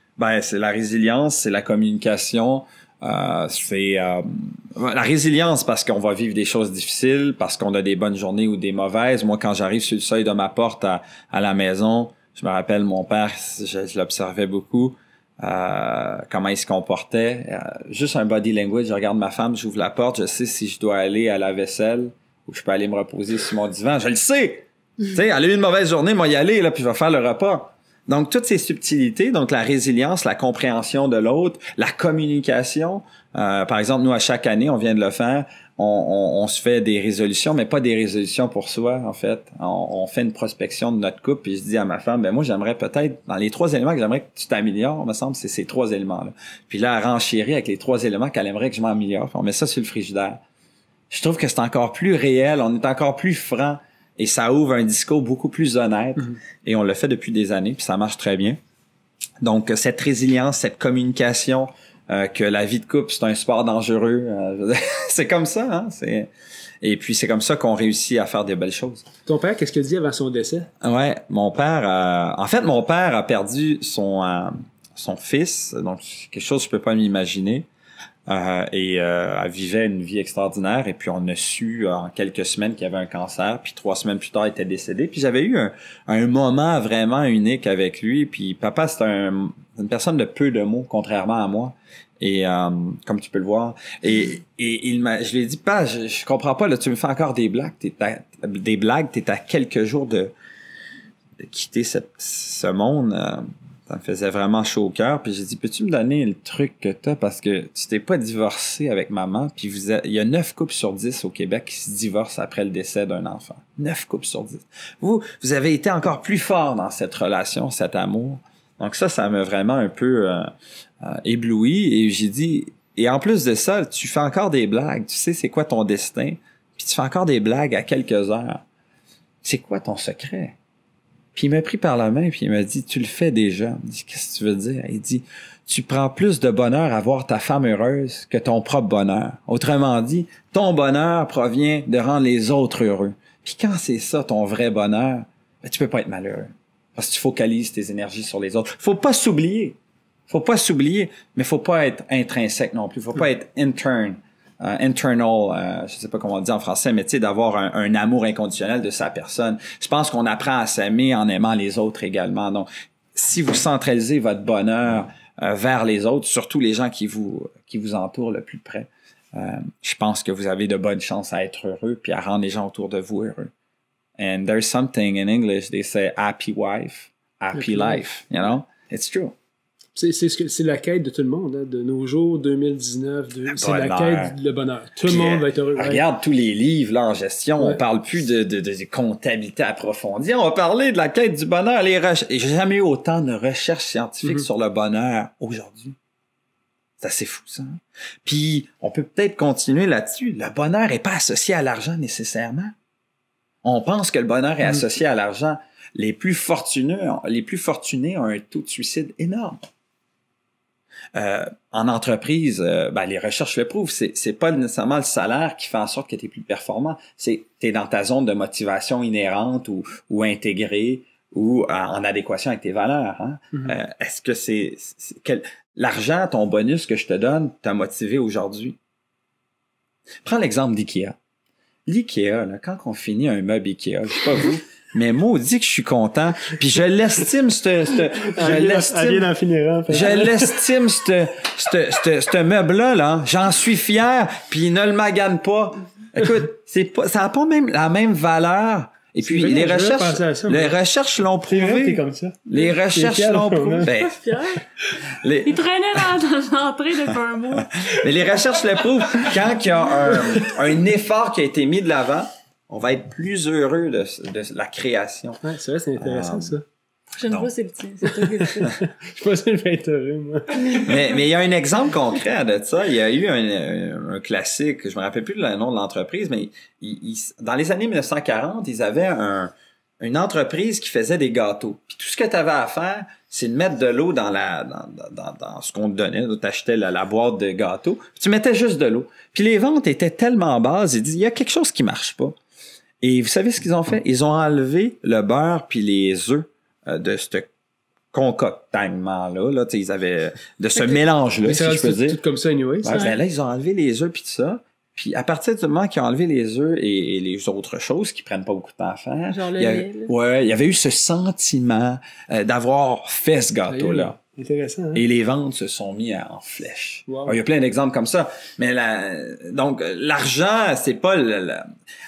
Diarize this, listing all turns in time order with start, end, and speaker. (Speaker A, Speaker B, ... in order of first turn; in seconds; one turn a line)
Speaker A: 0.2-50.4
Speaker A: 51.1-58.6
Speaker A: 59.4-66.3
Speaker A: 66.8-69.0
Speaker B: 69.2-70.7
Speaker A: 70.8-77.7
Speaker A: 78.3-100.3
Speaker A: 101.4-120.5
Speaker A: 121.0-128.6
Speaker A: 129.4-130.6
Speaker A: 131.3-149.8
Speaker A: 150.3-173.5
Speaker A: 174.2-179.3
Speaker B: 177.5-178.0
Speaker B: 179.9-186.0
Speaker A: 183.5-184.3
Speaker A: 185.0-195.9
Speaker A: 197.0-202.7
Speaker A: 203.6-209.6
Speaker A: 211.1-228.8
Speaker A: 230.2-231.2
Speaker A: 231.8-239.3
Speaker B: 238.2-240.7
Speaker A: 239.9-254.2
Speaker B: 249.2-250.7
Speaker B: 251.5-253.9
Speaker C: 253.8-254.6
Speaker A: 255.0-256.1
Speaker C: 255.4-258.4
Speaker A: 257.1-265.4
Speaker B: 265.4-266.6
Speaker A: 266.0-266.6
Speaker C: 267.1-268.8
Speaker B: 268.0-270.9
Speaker C: 270.5-271.1
Speaker A: 270.8-292.4
Speaker A: 293.0-297.5
Speaker A: 298.1-302.2
Speaker B: 301.4-303.0
Speaker A: 302.8-314.2
Speaker C: 302.9-303.1
Speaker C: 309.3-310.1
Speaker B: 313.7-315.0
Speaker A: 314.9-321.7
Speaker B: 317.1-317.4